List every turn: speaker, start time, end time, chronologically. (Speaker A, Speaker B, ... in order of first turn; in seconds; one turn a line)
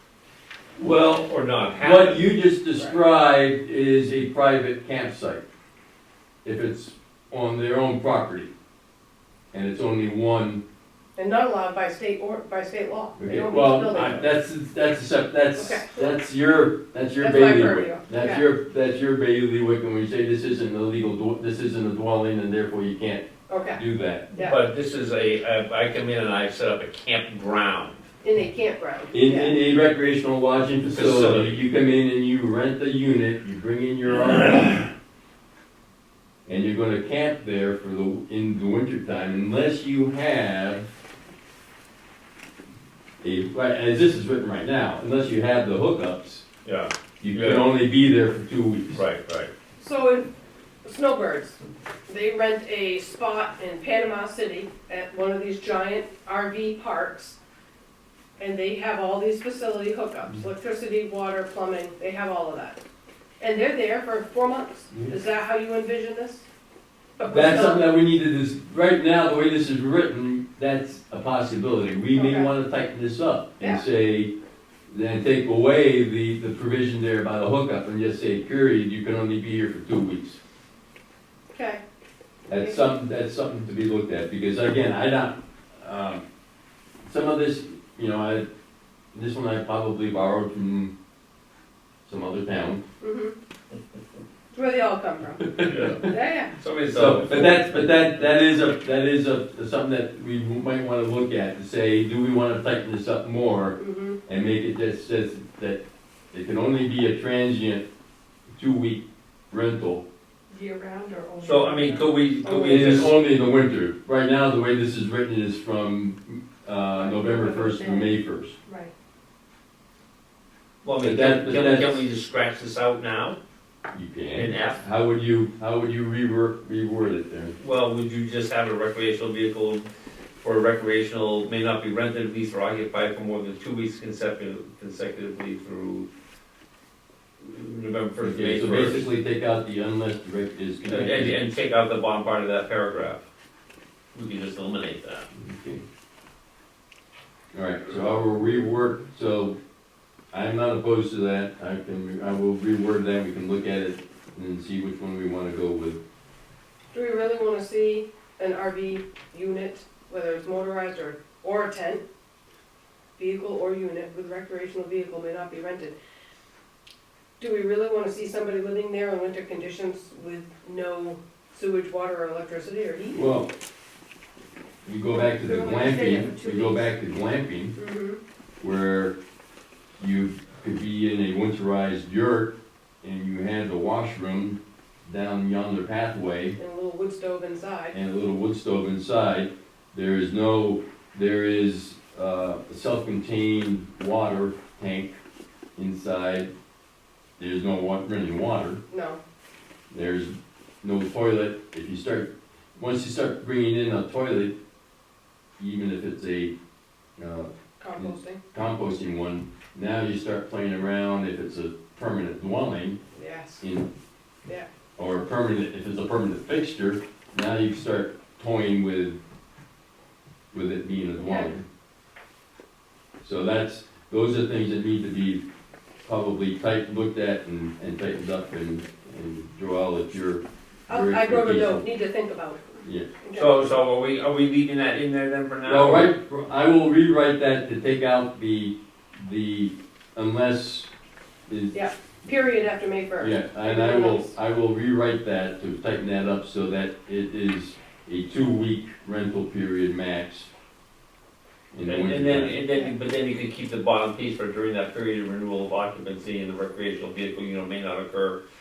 Speaker A: 0.8-2.3
Speaker B: 0.8-1.2
Speaker B: 1.8-5.4
Speaker C: 2.7-3.0
Speaker B: 6.4-8.5
Speaker B: 9.5-10.6
Speaker C: 11.2-14.3
Speaker B: 13.2-24.3
Speaker C: 15.5-16.1
Speaker C: 17.2-18.5
Speaker C: 23.5-23.8
Speaker A: 24.4-28.1
Speaker C: 28.2-29.6
Speaker B: 29.1-34.8
Speaker A: 30.9-31.6
Speaker B: 36.5-40.8
Speaker B: 43.2-46.4
Speaker A: 46.6-47.7
Speaker B: 47.2-49.0
Speaker A: 48.9-49.5
Speaker C: 49.8-50.3
Speaker C: 50.8-57.4
Speaker C: 58.4-62.8
Speaker C: 63.4-66.4
Speaker B: 64.9-65.2
Speaker C: 67.2-68.0
Speaker B: 67.3-74.3
Speaker C: 72.1-72.5
Speaker B: 74.9-80.4
Speaker C: 81.5-81.8
Speaker B: 82.5-86.2
Speaker B: 87.0-88.5
Speaker B: 89.1-90.9
Speaker B: 92.0-92.8
Speaker C: 93.0-93.3
Speaker C: 94.5-96.5
Speaker B: 95.5-96.1
Speaker A: 95.6-98.0
Speaker B: 96.9-105.8
Speaker C: 103.8-104.2
Speaker B: 106.3-107.8
Speaker B: 108.6-110.0
Speaker D: 110.5-112.5
Speaker A: 111.4-113.2
Speaker C: 112.4-113.0
Speaker B: 112.6-118.6
Speaker D: 117.0-118.1
Speaker D: 118.7-118.9
Speaker A: 120.8-123.4
Speaker B: 121.0-122.0
Speaker B: 123.9-127.5
Speaker A: 124.3-124.8
Speaker A: 127.6-129.8
Speaker A: 130.4-136.1
Speaker A: 137.4-139.0
Speaker B: 138.2-141.4
Speaker A: 140.9-143.2
Speaker A: 144.1-145.2
Speaker B: 145.3-145.8
Speaker B: 147.5-149.6
Speaker B: 150.3-156.0
Speaker C: 156.9-162.0
Speaker C: 163.2-165.9
Speaker C: 167.4-173.2
Speaker B: 173.1-173.5
Speaker B: 174.8-177.8
Speaker D: 175.3-176.8
Speaker C: 175.4-176.5
Speaker C: 177.8-178.2
Speaker B: 178.6-179.2
Speaker B: 180.0-186.6
Speaker C: 186.6-187.9
Speaker B: 187.9-195.2
Speaker B: 195.8-196.5
Speaker B: 197.4-198.8
Speaker C: 198.9-199.2
Speaker B: 199.9-204.5
Speaker B: 205.6-206.5
Speaker B: 207.2-213.0
Speaker C: 207.8-208.4
Speaker C: 213.1-213.6
Speaker B: 213.6-213.9
Speaker B: 215.0-219.2
Speaker B: 220.5-221.6
Speaker C: 221.2-221.5
Speaker B: 223.2-225.4
Speaker B: 226.1-231.8
Speaker C: 230.9-233.7
Speaker B: 232.8-233.1
Speaker A: 233.3-236.1
Speaker B: 235.6-240.9
Speaker B: 241.5-241.8
Speaker C: 241.7-244.3
Speaker B: 243.2-250.5
Speaker B: 251.7-252.6
Speaker A: 251.8-258.4